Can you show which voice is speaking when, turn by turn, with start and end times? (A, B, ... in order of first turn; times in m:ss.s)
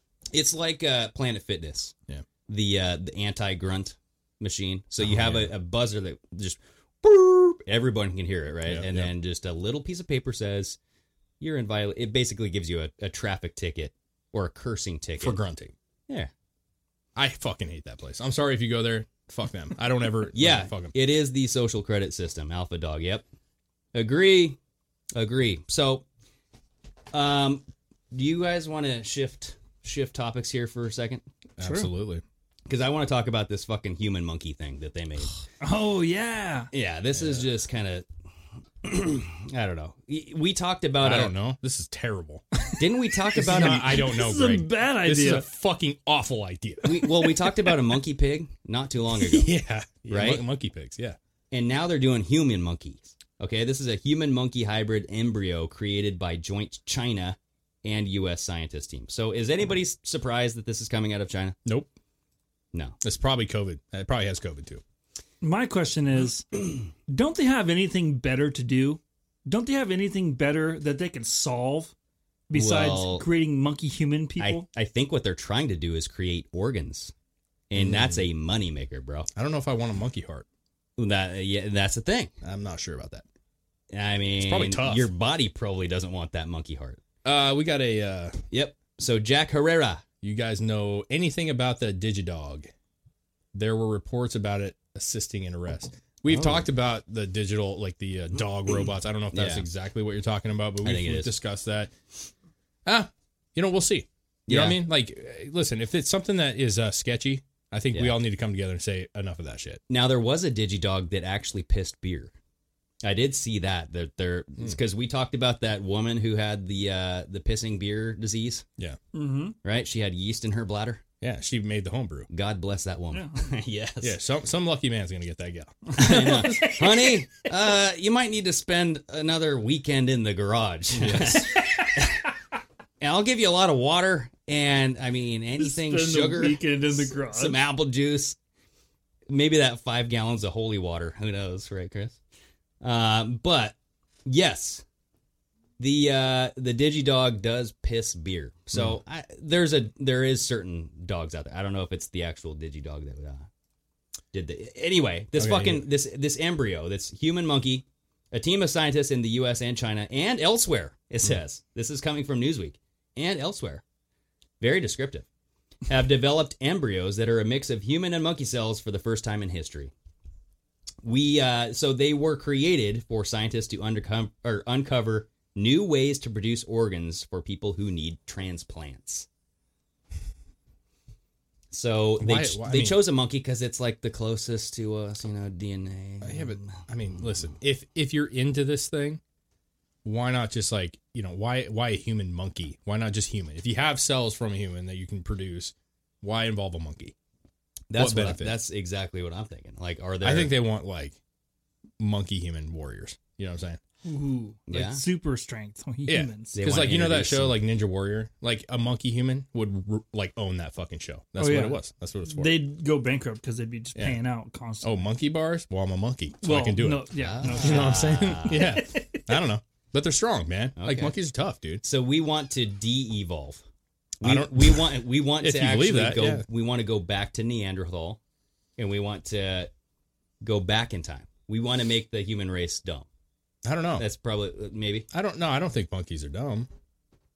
0:00.3-0:01.9 A
0:02.5-0:10.8 A
0:05.0-0:05.5 B
0:08.7-0:09.1 B
0:11.4-0:15.4 A
0:15.2-0:15.7 B
0:17.2-0:20.9 B
0:20.3-0:23.2 A
0:23.9-0:24.6 A
0:25.2-0:26.0 A
0:27.1-0:31.2 A
0:31.6-0:32.2 B
0:31.6-0:31.9 C
0:32.7-0:35.4 A
0:35.6-0:36.7 C
0:36.7-0:38.1 A
0:37.2-0:37.5 B
0:38.8-0:41.3 A
0:41.0-0:42.4 B
0:42.8-0:44.0 A
0:43.4-0:45.5 C
0:43.4-0:48.0 B
0:46.8-0:49.5 A
0:49.2-0:51.2 B
0:50.1-0:50.4 A
0:51.5-1:01.6 A
1:01.7-1:01.9 B
1:03.0-1:04.8 B
1:05.4-1:11.9 C
1:12.5-1:14.6 C
1:12.5-1:13.3 A
1:14.4-1:17.1 A
1:17.7-1:19.3 A
1:17.8-1:18.3 B
1:19.3-1:20.5 B
1:21.0-1:22.3 A
1:22.4-1:23.2 B
1:23.9-1:27.0 A
1:24.4-1:25.1 B
1:27.2-1:28.4 B
1:28.5-1:30.0 A
1:30.2-1:32.7 B
1:33.5-1:42.0 B
1:36.3-1:36.7 A
1:39.3-1:39.7 A
1:40.8-1:41.3 A
1:42.9-1:49.8 B
1:44.5-1:44.8 A
1:47.9-1:48.2 A
1:49.9-1:52.3 A
1:53.0-1:58.6 A
1:59.1-1:59.6 C
1:59.6-2:01.0 A
2:01.2-2:02.3 B
2:02.3-2:04.2 A
2:03.1-2:03.5 C
2:04.0-2:06.8 B
2:05.9-2:07.2 C
2:06.0-2:12.2 A
2:10.9-2:11.6 B
2:11.6-2:12.0 C
2:13.0-2:18.4 A
2:15.6-2:17.6 C
2:19.3-2:22.2 A
2:22.8-2:24.8 A
2:25.8-2:33.5 A
2:28.7-2:29.0 B
2:34.3-2:43.8 A
2:35.4-2:35.9 B
2:44.6-2:45.3 A
2:45.9-2:49.9 A
2:51.0-2:59.3 A
3:01.7-3:07.5 A
3:02.2-3:03.0 B
3:06.2-3:09.2 B
3:10.0-3:17.2 B
3:17.9-3:20.6 A
3:17.9-3:18.6 B
3:20.2-3:21.2 B
3:22.0-3:23.8 B
3:24.0-3:26.6 C
3:24.7-3:25.0 A
3:26.1-3:32.6 B
3:26.5-3:27.6 A
3:31.4-3:35.0 C
3:34.0-3:34.2 B
3:34.8-3:41.8 B
3:36.4-3:39.2 C
3:37.2-3:38.8 A
3:40.8-3:41.2 A
3:41.8-3:43.6 A
3:44.2-3:46.4 B
3:44.2-3:48.2 A
3:48.8-3:49.7 A
3:50.4-3:53.1 A
3:53.6-3:54.1 B
3:54.0-3:55.1 A
3:55.1-3:56.7 B